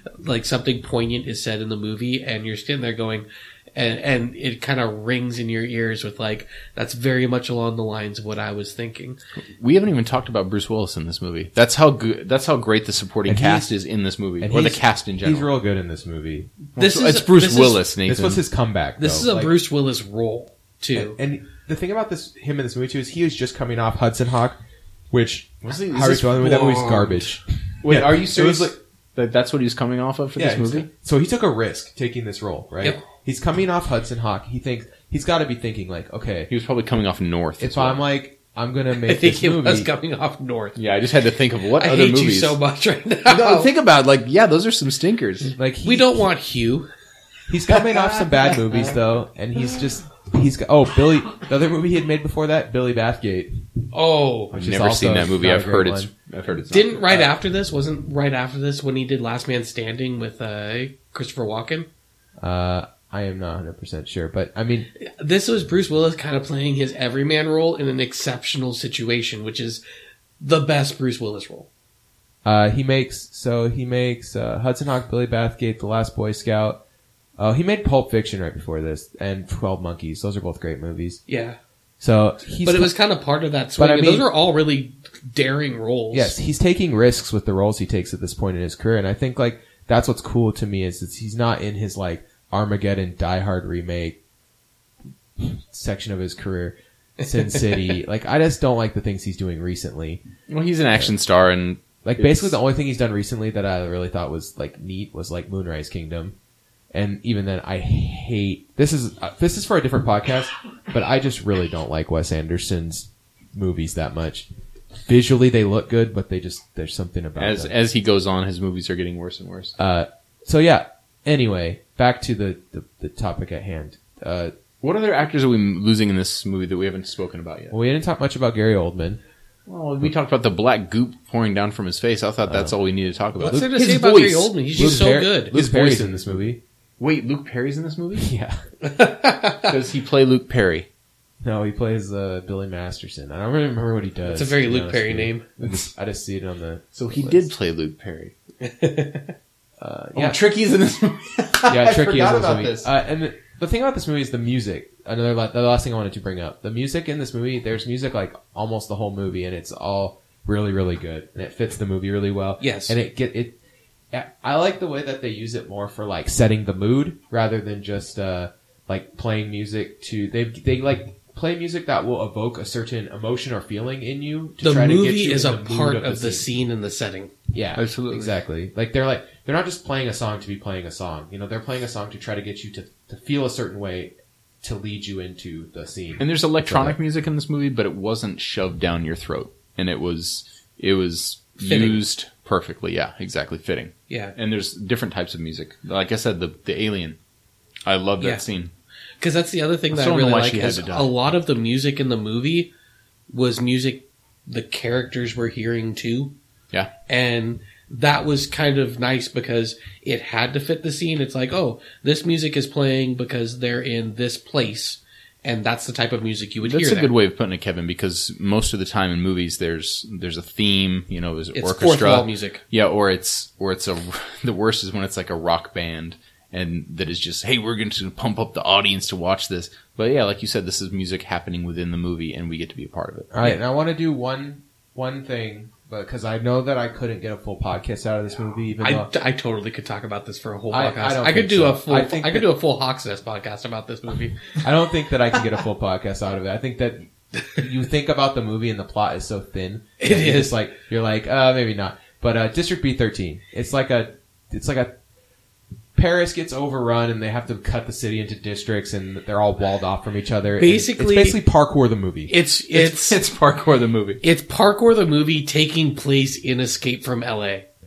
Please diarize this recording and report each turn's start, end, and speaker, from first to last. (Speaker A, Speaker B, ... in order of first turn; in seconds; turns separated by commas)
Speaker A: 0.2-9.2, Speaker B: 9.6-15.5, Speaker C: 13.3-13.7, Speaker C: 14.4-16.6, Speaker B: 16.8-18.4, Speaker A: 16.8-17.8, Speaker C: 18.1-19.5, Speaker A: 19.0-21.2, Speaker C: 20.9-24.6, Speaker C: 25.1-28.7, Speaker B: 25.6-26.9, Speaker A: 26.4-27.3, Speaker B: 27.8-30.9, Speaker C: 30.4-36.5, Speaker B: 36.5-38.0, Speaker C: 37.6-39.9, Speaker A: 39.0-40.8, Speaker B: 40.8-42.6, Speaker A: 41.8-43.7, Speaker B: 43.2-45.5, Speaker C: 45.6-46.3, Speaker A: 45.8-46.9, Speaker C: 47.5-53.7, Speaker B: 47.8-49.0, Speaker A: 53.9-54.5, Speaker C: 54.5-56.1, Speaker B: 54.5-57.3, Speaker A: 56.7-61.9, Speaker C: 62.4-64.9, Speaker A: 65.0-69.8, Speaker A: 70.4-71.7, Speaker C: 72.4-76.8, Speaker C: 77.4-81.2, Speaker A: 81.3-81.6, Speaker C: 82.0-82.9, Speaker A: 82.6-86.3, Speaker C: 83.8-84.3, Speaker C: 86.1-94.2, Speaker C: 95.4-100.2, Speaker B: 100.5-102.5, Speaker C: 102.0-106.3, Speaker C: 106.9-114.5, Speaker C: 115.0-117.7, Speaker B: 117.4-119.7, Speaker C: 119.8-124.5, Speaker B: 124.8-127.8, Speaker C: 127.7-129.2, Speaker B: 129.7-136.5, Speaker C: 132.5-132.7, Speaker A: 133.4-135.5, Speaker C: 133.4-133.7, Speaker C: 134.7-136.6, Speaker B: 137.0-138.3, Speaker C: 138.2-138.6, Speaker A: 138.8-139.7, Speaker B: 139.7-140.9, Speaker C: 141.4-147.5, Speaker A: 144.3-145.5, Speaker B: 146.9-148.3, Speaker A: 148.6-149.3, Speaker C: 149.8-150.4, Speaker B: 150.1-152.9, Speaker C: 151.7-163.6, Speaker A: 162.6-163.0, Speaker C: 164.1-176.5, Speaker A: 174.6-177.3, Speaker C: 177.5-187.0, Speaker B: 177.7-178.3, Speaker B: 186.2-197.2, Speaker A: 191.6-192.0, Speaker A: 194.1-194.3, Speaker B: 197.8-198.7, Speaker A: 199.2-202.7, Speaker B: 199.9-201.1, Speaker A: 203.3-206.3, Speaker A: 207.1-217.1, Speaker B: 216.6-233.5, Speaker A: 221.5-222.6, Speaker C: 233.3-239.1, Speaker A: 238.8-244.6, Speaker C: 240.7-242.5, Speaker C: 244.6-255.0, Speaker A: 250.0-250.6, Speaker C: 255.9-262.3, Speaker A: 260.6-261.4, Speaker A: 262.3-263.2, Speaker B: 262.7-264.2, Speaker A: 264.2-267.6